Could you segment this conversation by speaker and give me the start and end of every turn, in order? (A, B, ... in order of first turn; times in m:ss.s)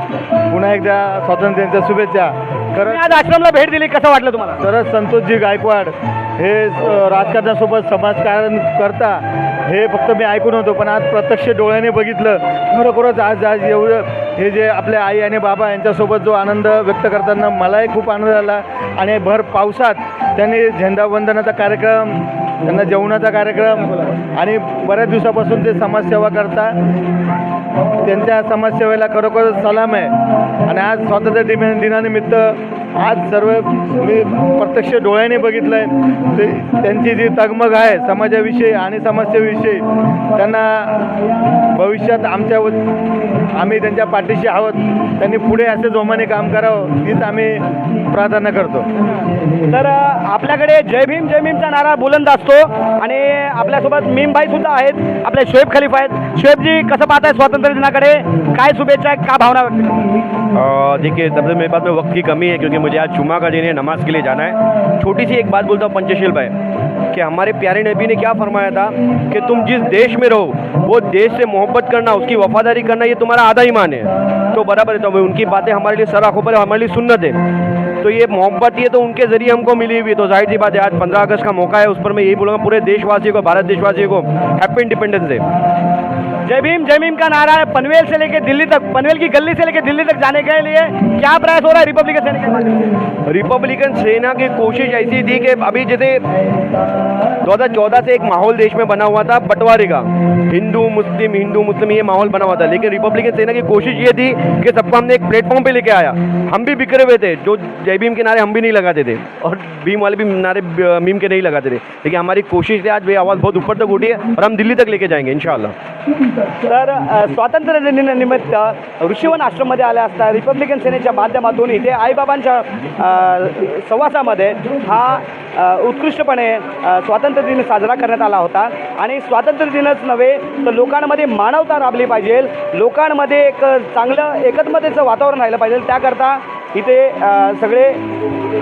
0:00.5-0:03.1 A
0:02.8-0:04.6 B
0:04.6-0:26.8 A
0:28.0-0:30.1 A
0:30.6-0:41.1 A
0:41.7-0:42.8 A
0:43.5-0:48.9 A
0:49.7-1:00.0 B
1:00.5-1:06.5 C
1:07.1-1:17.4 C
1:18.0-1:25.4 C
1:26.4-1:32.8 B
1:33.2-1:36.2 C
1:37.4-1:55.7 C
1:56.6-2:18.0 B